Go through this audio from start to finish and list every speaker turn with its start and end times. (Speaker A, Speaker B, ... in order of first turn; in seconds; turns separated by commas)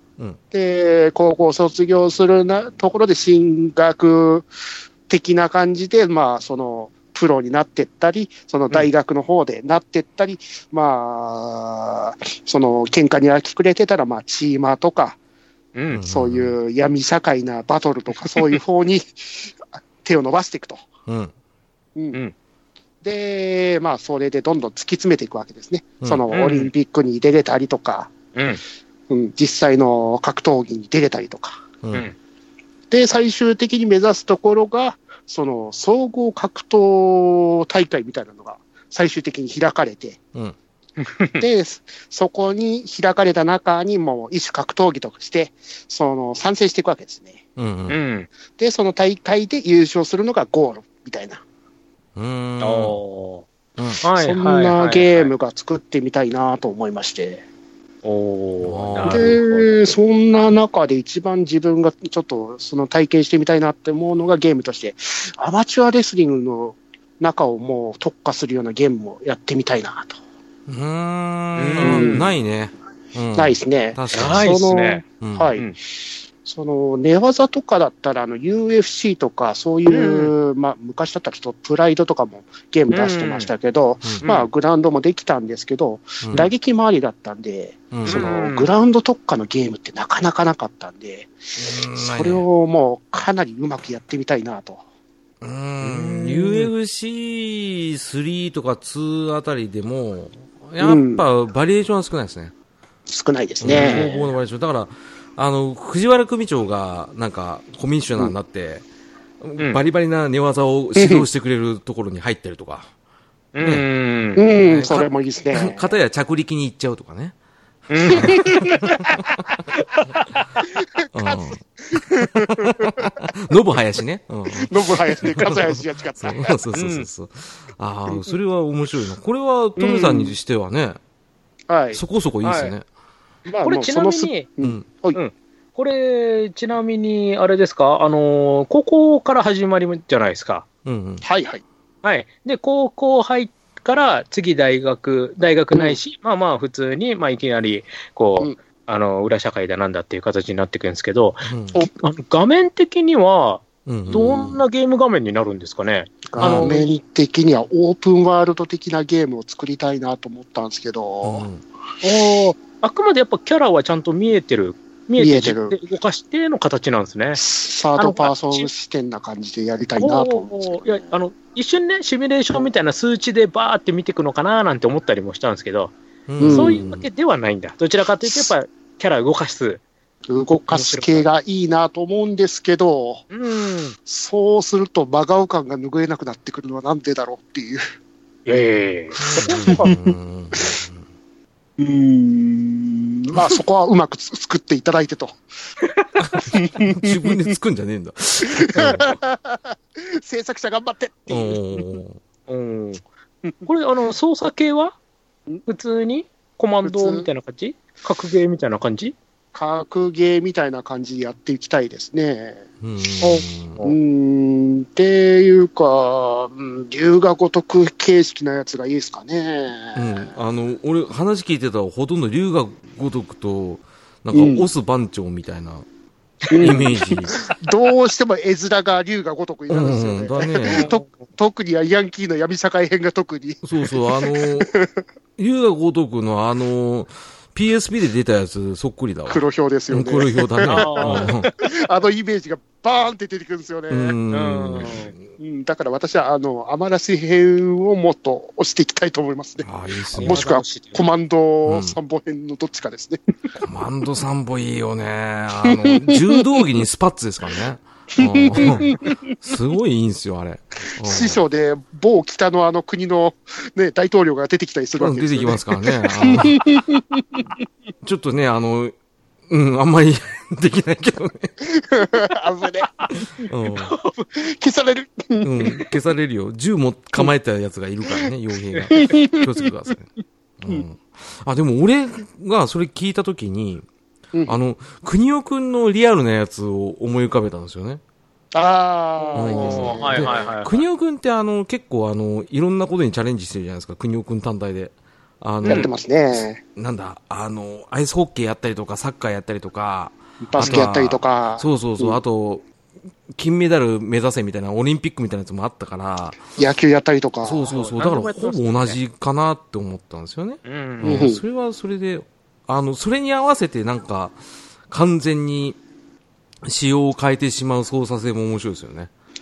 Speaker A: 0.5-4.5, Speaker A: 5.1-15.2, Speaker B: 15.7-16.0, Speaker C: 15.9-16.5, Speaker A: 16.0-20.8, Speaker C: 21.1-21.3, Speaker A: 23.0-28.1, Speaker B: 26.3-26.7, Speaker B: 28.3-28.6, Speaker A: 29.1-31.6, Speaker A: 32.9-40.2, Speaker B: 41.0-41.4, Speaker A: 41.4-47.4, Speaker C: 47.6-48.0, Speaker B: 47.9-48.3, Speaker A: 48.6-51.4, Speaker C: 52.1-53.0, Speaker B: 52.6-53.4, Speaker B: 54.0-55.3, Speaker A: 54.1-57.4, Speaker B: 58.0-59.8, Speaker C: 58.6-59.4, Speaker A: 59.0-70.2, Speaker C: 70.7-74.5, Speaker B: 71.6-72.3, Speaker A: 71.8-72.2, Speaker A: 73.3-75.7, Speaker B: 74.1-75.0, Speaker C: 75.2-75.5, Speaker A: 76.4-94.8, Speaker B: 79.9-80.3, Speaker B: 82.9-83.5, Speaker B: 84.2-84.5, Speaker C: 86.2-86.5, Speaker C: 87.9-88.2, Speaker B: 88.1-88.7, Speaker C: 91.6-92.4, Speaker C: 95.4-102.5, Speaker B: 95.8-96.7, Speaker A: 100.8-101.2, Speaker A: 103.1-104.2, Speaker C: 103.6-108.8, Speaker B: 103.7-104.2, Speaker C: 109.4-112.9, Speaker A: 111.0-111.2, Speaker B: 113.5-114.4, Speaker A: 114.3-115.9, Speaker C: 114.5-117.3, Speaker B: 117.9-118.7, Speaker C: 118.1-119.6, Speaker A: 118.1-119.3, Speaker A: 120.7-123.2, Speaker C: 121.1-121.6, Speaker C: 122.3-131.0, Speaker A: 124.5-126.6, Speaker B: 126.7-127.1, Speaker A: 129.8-130.3, Speaker A: 131.7-132.0, Speaker C: 131.9-132.8, Speaker B: 132.4-132.7, Speaker A: 133.4-135.2, Speaker B: 133.6-134.5, Speaker B: 135.1-140.6, Speaker C: 140.8-141.2, Speaker A: 141.2-141.6, Speaker B: 142.0-156.9, Speaker C: 151.5-151.8, Speaker C: 153.8-154.6, Speaker A: 156.3-161.5, Speaker C: 156.4-156.7, Speaker C: 161.2-161.6, Speaker B: 162.0-167.4, Speaker A: 165.2-165.7, Speaker A: 167.3-170.9, Speaker B: 168.0-168.7, Speaker B: 170.0-179.8, Speaker C: 176.3-177.1, Speaker A: 176.4-176.8, Speaker A: 178.2-178.5, Speaker A: 180.3-183.2, Speaker B: 180.7-181.2, Speaker B: 183.3-183.9, Speaker A: 184.0-187.8, Speaker B: 188.4-189.9, Speaker A: 189.2-190.1, Speaker C: 189.2-191.0, Speaker A: 191.8-195.4, Speaker C: 196.2-199.2, Speaker A: 196.4-197.4, Speaker A: 198.4-201.8, Speaker C: 201.3-202.2, Speaker B: 202.5-203.0, Speaker B: 203.6-204.9, Speaker B: 205.7-209.1, Speaker A: 206.8-207.3, Speaker A: 209.5-212.7, Speaker C: 212.8-213.8, Speaker A: 213.2-220.3, Speaker C: 219.9-225.8, Speaker A: 224.3-224.7, Speaker B: 226.5-226.8, Speaker A: 226.5-234.9, Speaker C: 226.6-227.3, Speaker C: 229.7-230.9, Speaker B: 230.7-231.1, Speaker C: 233.6-234.7, Speaker C: 235.4-241.5, Speaker A: 239.3-244.2, Speaker B: 240.6-241.5, Speaker C: 243.9-245.2, Speaker B: 244.3-245.1, Speaker A: 245.4-253.2, Speaker C: 249.6-250.5, Speaker B: 250.1-251.0, Speaker C: 251.7-251.9, Speaker C: 253.6-261.4, Speaker A: 255.6-256.6, Speaker A: 258.2-259.2, Speaker A: 261.0-267.5, Speaker C: 265.0-266.7, Speaker C: 268.0-268.9, Speaker C: 269.5-271.5, Speaker A: 271.7-272.9, Speaker C: 273.5-273.9, Speaker B: 273.7-274.3, Speaker A: 274.4-275.9, Speaker C: 275.4-283.9, Speaker A: 278.9-279.6, Speaker C: 284.5-288.0, Speaker A: 288.5-290.5, Speaker B: 289.2-290.8, Speaker C: 289.4-295.9, Speaker A: 295.6-296.6, Speaker C: 296.7-302.6, Speaker A: 300.4-302.2, Speaker C: 303.3-306.4, Speaker A: 306.6-307.8, Speaker C: 307.4-314.4, Speaker B: 307.7-309.0, Speaker B: 310.6-311.2, Speaker A: 311.0-311.4, Speaker C: 314.9-315.8, Speaker C: 316.6-319.1